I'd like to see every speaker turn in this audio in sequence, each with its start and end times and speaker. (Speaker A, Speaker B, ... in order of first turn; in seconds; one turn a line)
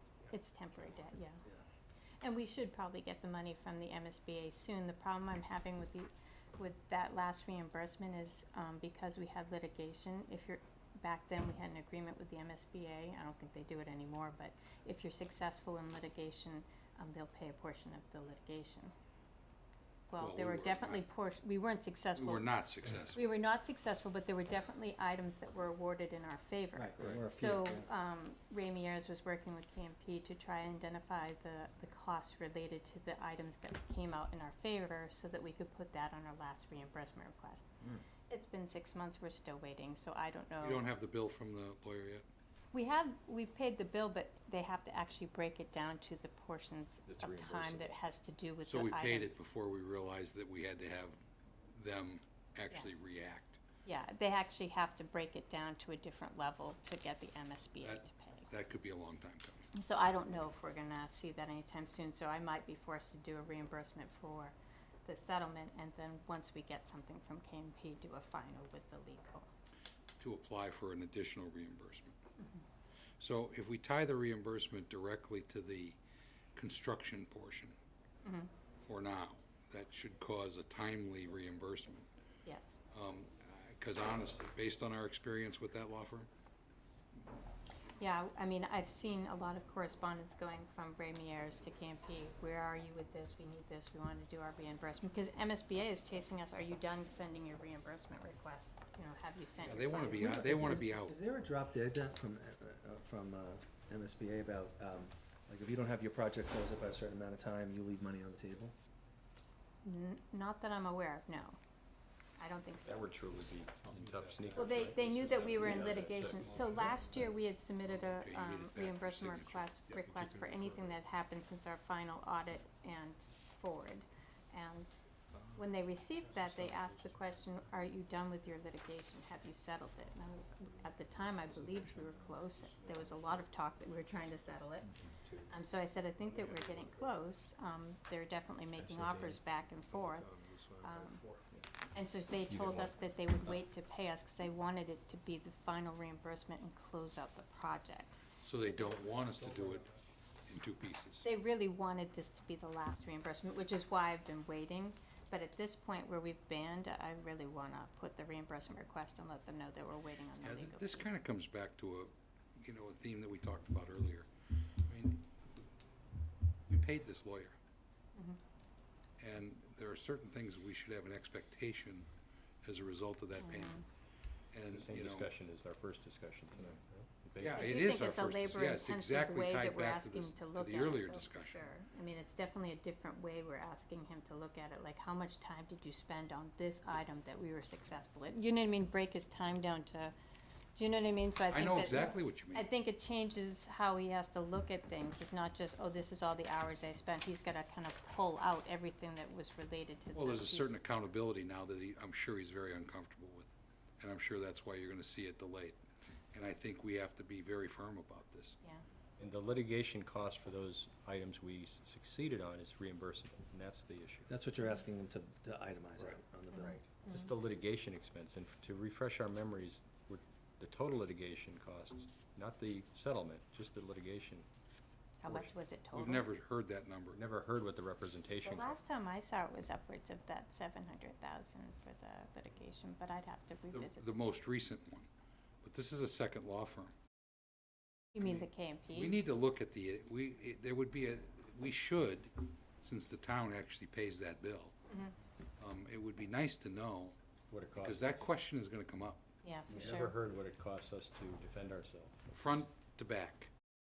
Speaker A: 0.3-1.4
Speaker A: 2.2-18.9
Speaker A: 20.1-22.5
Speaker B: 20.2-21.0
Speaker B: 22.2-23.2
Speaker A: 23.1-37.7
Speaker C: 26.8-27.9
Speaker A: 38.3-40.9
Speaker B: 40.6-42.2
Speaker A: 42.7-49.4
Speaker D: 47.1-48.0
Speaker B: 48.6-51.2
Speaker B: 51.7-53.6
Speaker A: 53.9-58.5
Speaker B: 57.8-59.7
Speaker A: 59.7-69.5
Speaker B: 70.2-72.2
Speaker A: 72.4-72.6
Speaker B: 73.2-76.0
Speaker B: 76.6-77.8
Speaker A: 78.2-78.5
Speaker B: 78.8-82.1
Speaker A: 82.5-82.8
Speaker B: 82.9-86.3
Speaker A: 88.0-100.8
Speaker B: 99.6-101.2
Speaker C: 100.0-108.8
Speaker A: 109.8-111.6
Speaker A: 112.4-113.1
Speaker D: 112.8-116.7
Speaker B: 113.9-115.7
Speaker A: 114.5-125.0
Speaker C: 115.5-117.1
Speaker B: 116.5-116.8
Speaker B: 117.9-121.0
Speaker A: 125.6-134.9
Speaker B: 131.7-132.1
Speaker A: 135.5-140.3
Speaker D: 138.8-139.3
Speaker B: 139.9-141.4
Speaker A: 140.8-141.2
Speaker A: 141.9-148.2
Speaker D: 142.5-143.0
Speaker B: 148.4-149.9
Speaker C: 149.5-149.7
Speaker B: 150.5-151.2
Speaker A: 151.2-161.1
Speaker B: 160.4-164.3
Speaker B: 164.9-165.6
Speaker B: 166.7-167.6
Speaker B: 169.2-172.1
Speaker B: 172.6-173.8
Speaker A: 173.4-173.8
Speaker B: 174.5-175.3
Speaker D: 174.7-178.0
Speaker B: 177.4-181.6
Speaker A: 177.6-190.1
Speaker A: 190.8-200.8
Speaker B: 191.5-192.7
Speaker B: 200.2-205.8
Speaker B: 206.3-208.6
Speaker D: 209.2-214.3
Speaker C: 214.3-216.8
Speaker D: 216.0-224.5
Speaker A: 216.5-217.3
Speaker A: 225.2-226.3
Speaker D: 225.3-225.5
Speaker B: 225.9-227.2
Speaker D: 227.1-228.8
Speaker A: 228.4-234.1
Speaker B: 233.7-235.1
Speaker B: 235.6-236.9
Speaker A: 238.2-239.2
Speaker B: 238.2-244.8
Speaker B: 245.6-247.2
Speaker D: 247.5-248.3
Speaker B: 247.8-249.2
Speaker A: 249.4-250.2
Speaker D: 249.7-252.2
Speaker B: 252.3-253.5